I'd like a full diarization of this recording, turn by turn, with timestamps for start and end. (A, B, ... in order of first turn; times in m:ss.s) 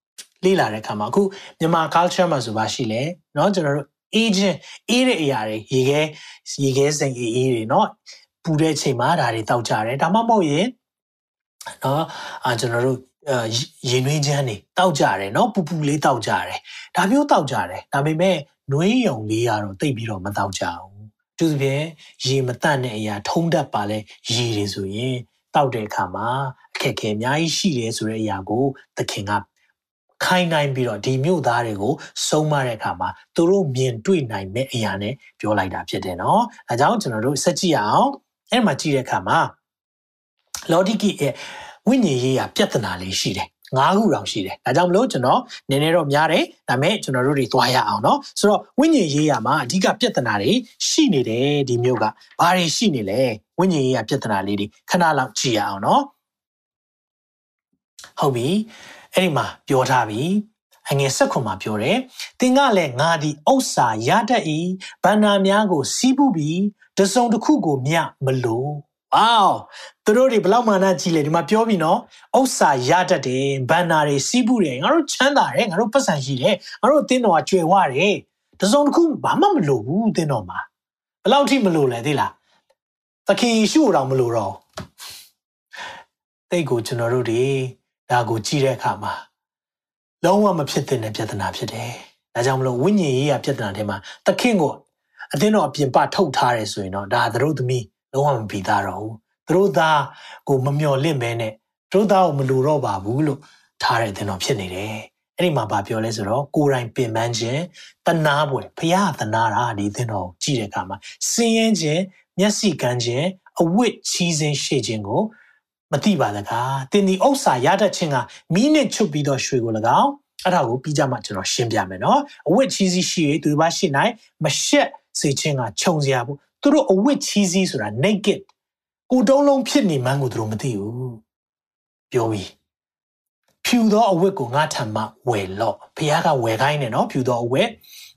0:00.4-0:10.7 A
0:11.8-0:29.4 A
0:30.2-0:39.5 A
0:40.7-0:56.1 A
0:58.2-1:20.6 A
1:21.2-1:22.4 A
1:23.3-1:24.6 A
1:26.5-1:29.2 A
1:30.2-1:55.3 A
1:55.9-2:08.5 A
2:09.1-2:11.2 A
2:12.1-2:12.5 A
2:13.6-2:17.8 A